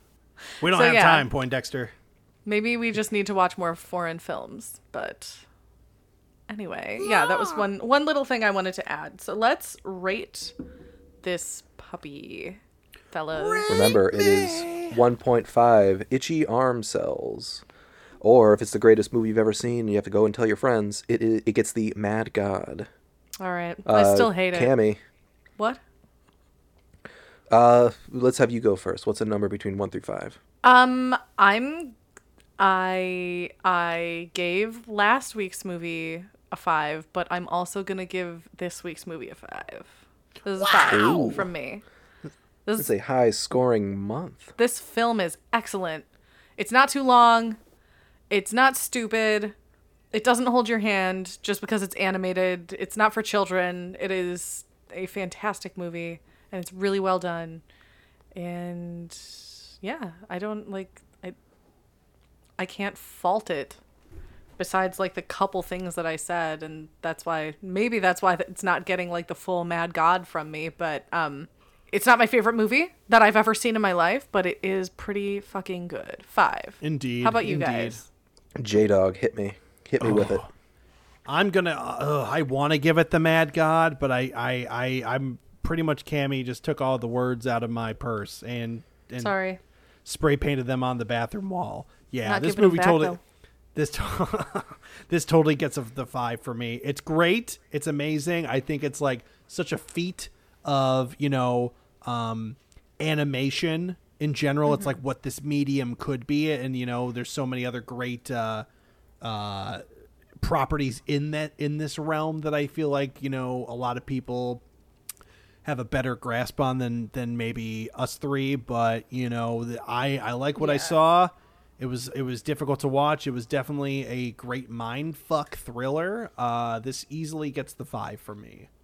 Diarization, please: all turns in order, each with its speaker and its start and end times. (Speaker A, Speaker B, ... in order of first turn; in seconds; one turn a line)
Speaker A: 0.6-1.9
Speaker B: 0.6-1.3
Speaker B: 2.5-5.4
Speaker B: 6.5-10.5
Speaker A: 7.0-7.6
Speaker B: 11.2-12.6
Speaker B: 13.1-13.9
Speaker A: 13.3-15.0
Speaker C: 13.7-17.6
Speaker C: 18.2-22.9
Speaker B: 23.4-24.7
Speaker C: 23.9-25.0
Speaker C: 27.5-30.4
Speaker B: 30.6-31.9
Speaker B: 32.6-39.9
Speaker B: 40.4-41.8
Speaker A: 40.6-41.4
Speaker C: 40.9-41.4
Speaker C: 42.8-44.5
Speaker B: 44.6-47.6
Speaker B: 48.3-49.5
Speaker B: 50.1-57.6
Speaker B: 58.3-61.4
Speaker B: 62.6-63.8
Speaker B: 64.6-78.0
Speaker A: 76.8-78.0
Speaker C: 78.6-80.5
Speaker A: 80.0-80.5
Speaker A: 81.2-89.3
Speaker B: 89.2-89.6
Speaker A: 90.0-93.2
Speaker B: 92.2-93.2
Speaker A: 93.7-108.7
Speaker A: 109.2-109.8
Speaker A: 110.4-114.6
Speaker A: 115.6-128.7
Speaker B: 120.6-121.0